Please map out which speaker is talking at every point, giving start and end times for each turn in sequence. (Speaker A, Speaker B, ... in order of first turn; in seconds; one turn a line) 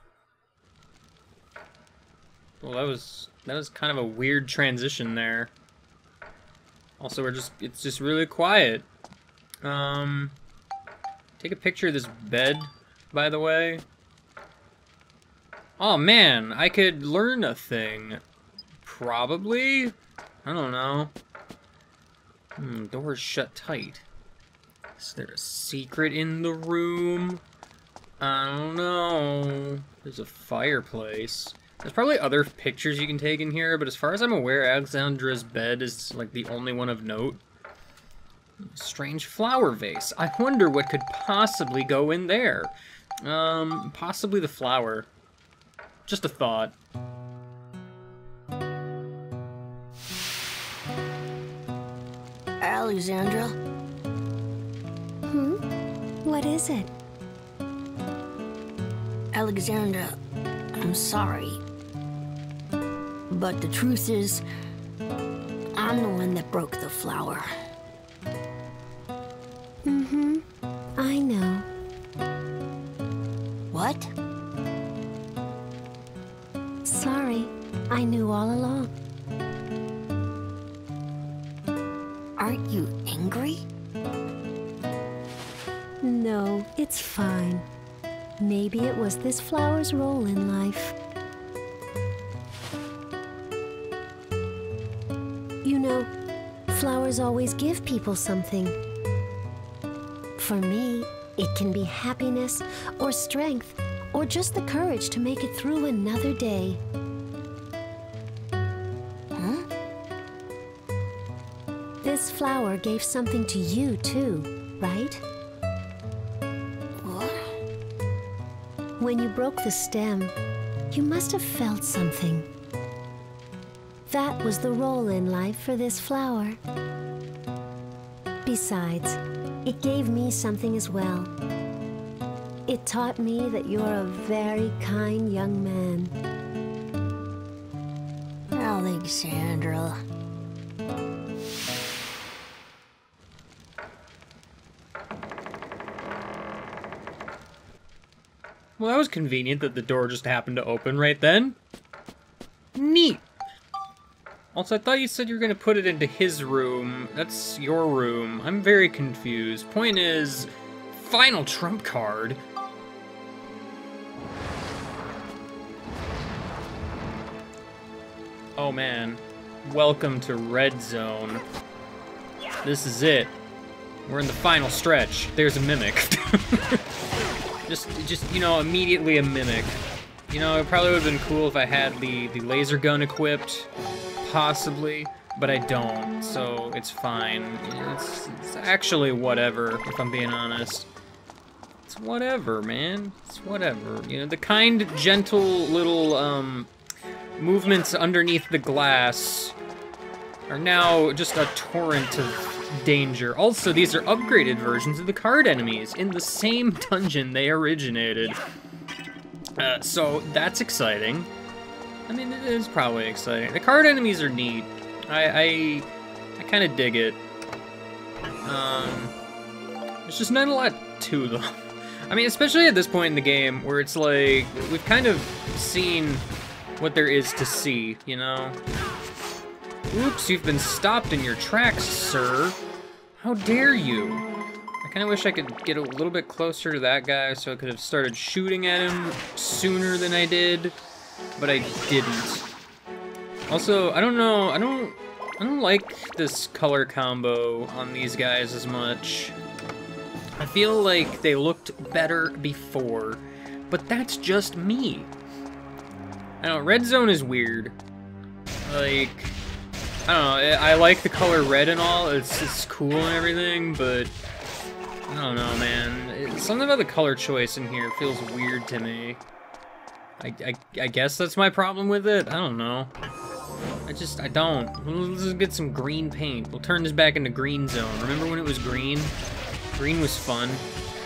Speaker A: 2.6-5.5
Speaker A: 7.0-8.8
Speaker A: 9.6-10.3
Speaker A: 11.4-13.8
Speaker A: 15.8-18.2
Speaker A: 18.8-21.1
Speaker A: 22.6-24.0
Speaker A: 25.0-27.4
Speaker A: 28.2-37.4
Speaker A: 38.6-45.1
Speaker A: 46.1-46.7
Speaker B: 52.6-53.5
Speaker C: 55.3-55.6
Speaker C: 56.2-56.9
Speaker B: 59.3-60.1
Speaker B: 60.8-61.6
Speaker B: 63.3-64.4
Speaker B: 65.7-67.5
Speaker C: 69.8-70.4
Speaker C: 71.0-71.7
Speaker B: 73.7-74.1
Speaker C: 76.8-78.9
Speaker B: 82.4-83.6
Speaker C: 86.0-87.7
Speaker C: 88.4-90.9
Speaker C: 95.6-96.1
Speaker C: 96.7-98.8
Speaker C: 100.4-106.8
Speaker B: 109.3-109.6
Speaker C: 112.0-115.2
Speaker B: 117.0-117.4
Speaker C: 119.0-120.3
Speaker C: 120.9-122.5
Speaker C: 124.1-126.6
Speaker C: 128.4-131.3
Speaker C: 132.7-136.1
Speaker B: 138.5-140.0
Speaker A: 148.8-151.6
Speaker A: 152.7-153.2
Speaker A: 154.5-162.4
Speaker A: 168.6-171.4
Speaker A: 172.6-173.3
Speaker A: 174.1-176.8
Speaker A: 177.7-183.7
Speaker A: 184.2-190.9
Speaker A: 191.8-196.7
Speaker A: 197.4-199.6
Speaker A: 200.5-208.4
Speaker A: 209.6-211.3
Speaker A: 212.1-217.2
Speaker A: 218.4-219.1
Speaker A: 220.0-226.2
Speaker A: 226.8-228.6
Speaker A: 229.9-232.6
Speaker A: 233.2-234.3
Speaker A: 234.8-240.8
Speaker A: 241.4-242.4
Speaker A: 243.5-249.3
Speaker A: 250.4-255.1
Speaker A: 256.4-257.8
Speaker A: 258.6-259.4
Speaker A: 260.1-264.1
Speaker A: 265.1-269.2
Speaker A: 270.2-272.9
Speaker A: 273.9-279.1
Speaker A: 279.7-280.6